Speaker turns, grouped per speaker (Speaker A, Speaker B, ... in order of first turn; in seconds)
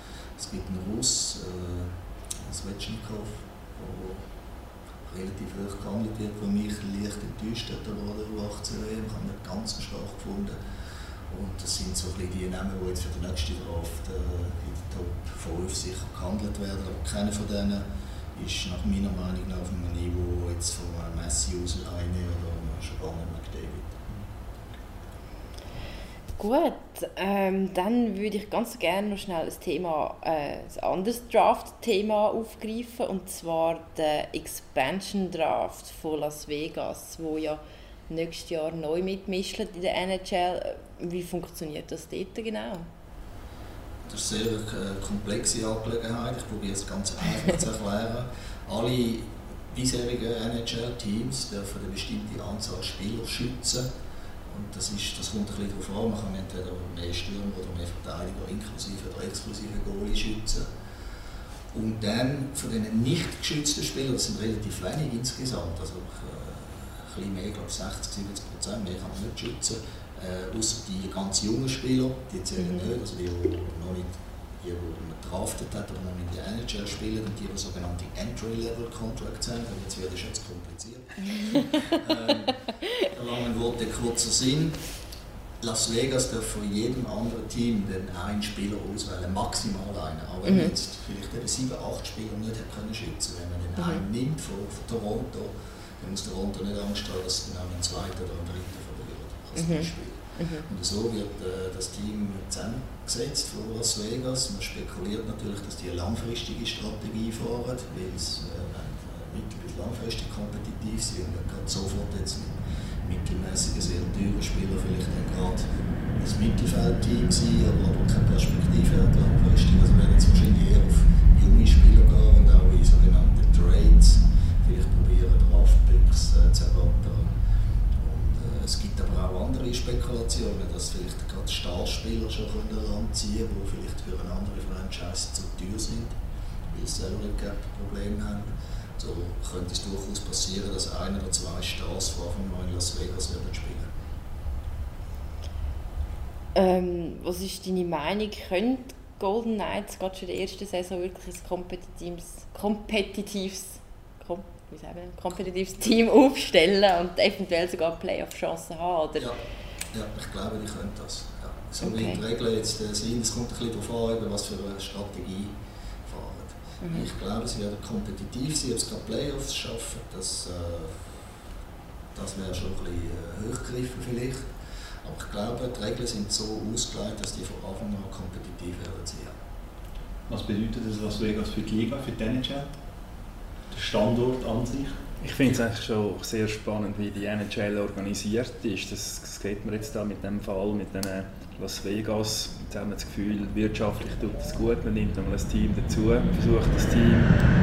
Speaker A: 0.4-4.3, 5.0-10.6, 11.3-23.9, 44.0-53.9, 54.5-60.7, 61.7-84.8, 85.6-127.3, 127.9-136.1, 136.7-143.9, 159.9-171.2, 172.1-179.3
Speaker B: 26.4-42.9, 99.5-100.6, 146.5-159.2, 161.8-162.2
Speaker C: 180.3-182.7, 183.7-185.0
Speaker D: 185.2-197.4